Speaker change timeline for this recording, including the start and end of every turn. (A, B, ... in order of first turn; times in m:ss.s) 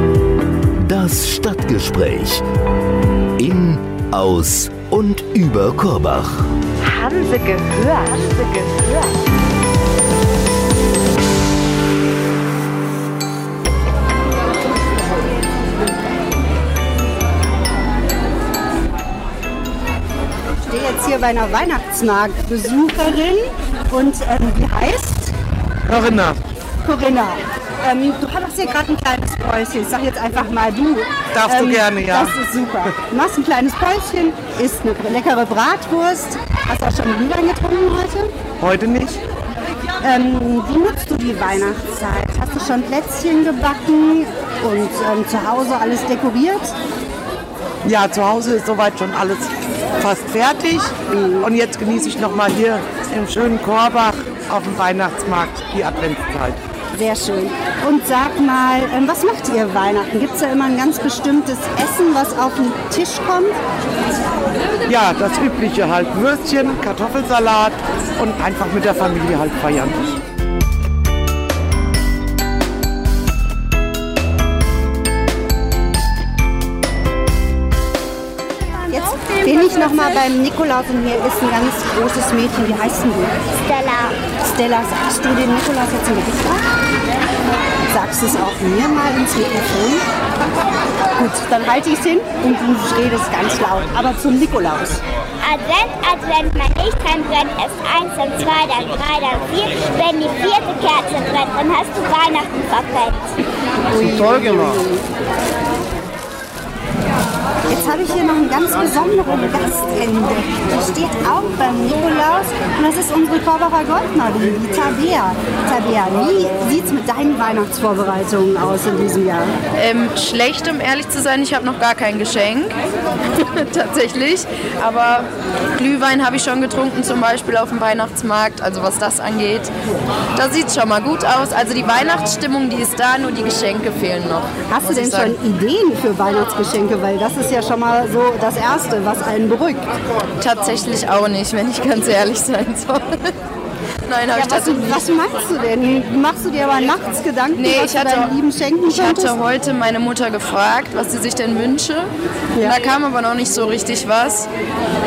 0:00.8-0:02.4 A
0:03.4-0:06.5 A
0:06.8-0:09.1 B
0:20.6-0:25.3 C
0:25.9-0:26.4 D
0:26.8-0:38.3 C
0:31.3-0:32.4 D
0:38.6-0:39.2 D
0:40.0-0:46.7 C
0:47.8-0:56.6 D
0:56.9-1:03.6 C
1:04.9-1:10.1 D
1:18.9-1:23.3 C
1:23.7-1:24.2 E
1:24.3-1:26.6 C
1:27.9-1:30.0 C
1:31.1-1:35.0 C
1:35.4-1:43.3 E
1:43.9-1:45.0 C
1:47.7-1:59.5 C
1:59.8-2:02.8 F
2:03.3-2:09.7 F
2:10.3-2:15.4 F
2:14.7-2:19.9 C
2:20.4-2:23.3 F
2:24.1-2:25.0 F
2:24.3-2:29.4 C
2:27.6-2:28.3 F
2:28.8-2:34.5 F
2:32.6-2:32.8 C